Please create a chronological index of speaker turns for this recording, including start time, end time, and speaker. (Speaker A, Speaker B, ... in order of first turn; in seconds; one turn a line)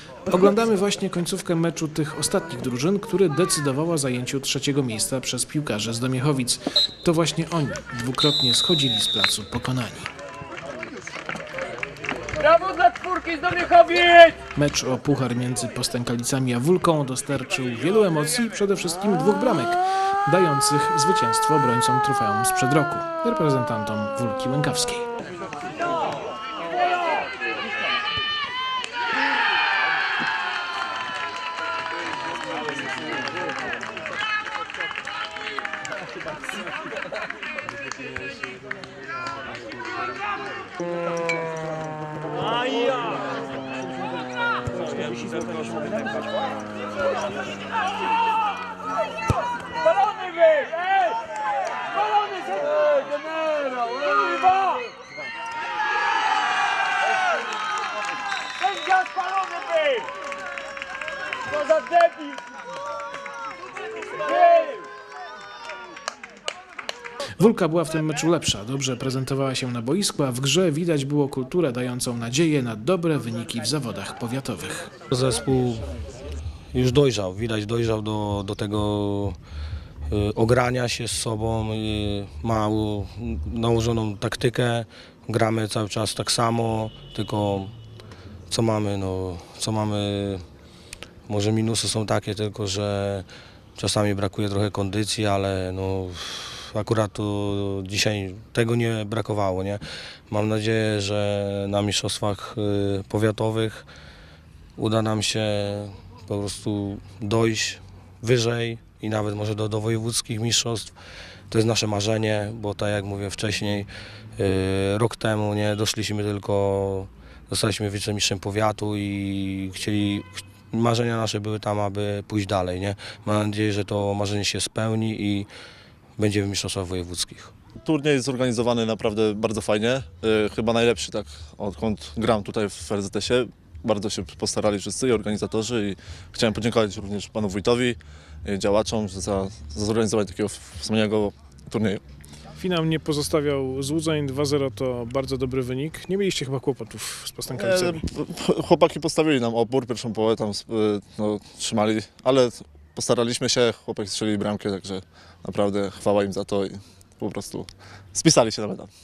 Speaker A: 0.3-10.1
Speaker B: 12.4-14.3
Speaker A: 14.5-25.1
Speaker B: 50.4-50.6
Speaker B: 52.5-54.8
Speaker B: 58.8-60.0
Speaker B: 61.6-62.3
Speaker B: 64.2-64.7
Speaker A: 67.4-74.9
Speaker C: 75.1-75.8
Speaker C: 76.7-79.4
Speaker C: 80.1-87.7
Speaker C: 88.5-90.4
Speaker C: 91.3-93.2
Speaker C: 93.8-103.8
Speaker C: 104.8-110.9
Speaker C: 111.5-125.5
Speaker C: 126.2-127.5
Speaker D: 127.8-142.0
Speaker A: 142.6-148.0
Speaker D: 147.5-158.9